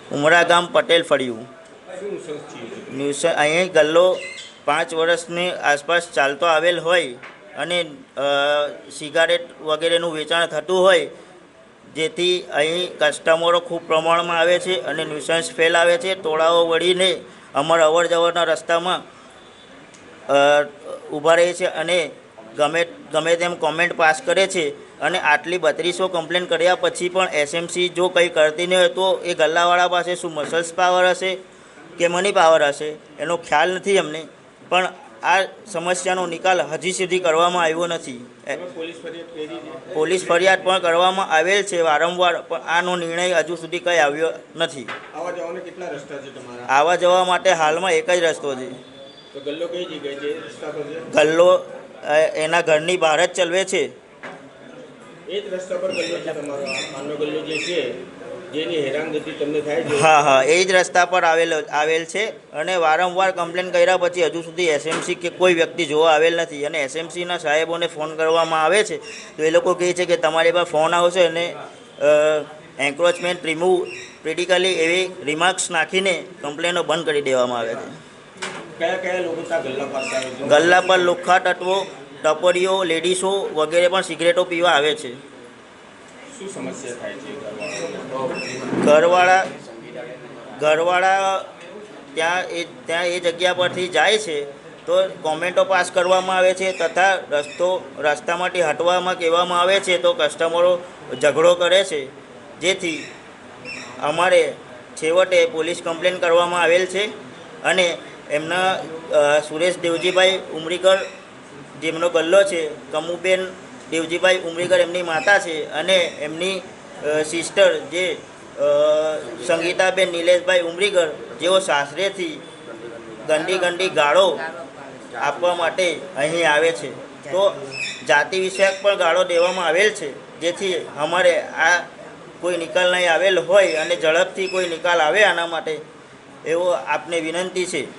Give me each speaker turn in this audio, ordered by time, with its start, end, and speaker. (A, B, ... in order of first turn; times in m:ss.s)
0:00.1-0:01.5 A
0:01.9-0:03.0 B
0:02.9-0:11.1 A
0:11.9-0:19.0 A
0:20.3-0:31.4 A
0:32.0-0:38.6 A
0:38.5-0:39.9 B
0:39.9-0:44.9 A
0:45.1-0:46.7 B
0:46.7-0:48.8 A
0:49.3-0:51.1 B
0:51.1-0:53.9 A
0:55.3-0:58.0 B
0:58.5-1:00.1 B
0:59.9-1:18.0 A
1:18.8-1:21.0 B
1:20.4-1:25.2 A
1:26.3-1:28.3 B
1:28.8-1:29.4 A
1:30.6-1:31.5 A
1:32.1-1:43.1 A
1:44.0-1:47.1 A
1:47.6-1:51.0 A
1:51.8-2:02.4 A
2:03.2-2:04.4 A
2:05.2-2:11.9 A
2:12.4-2:15.8 A
2:16.4-2:17.9 A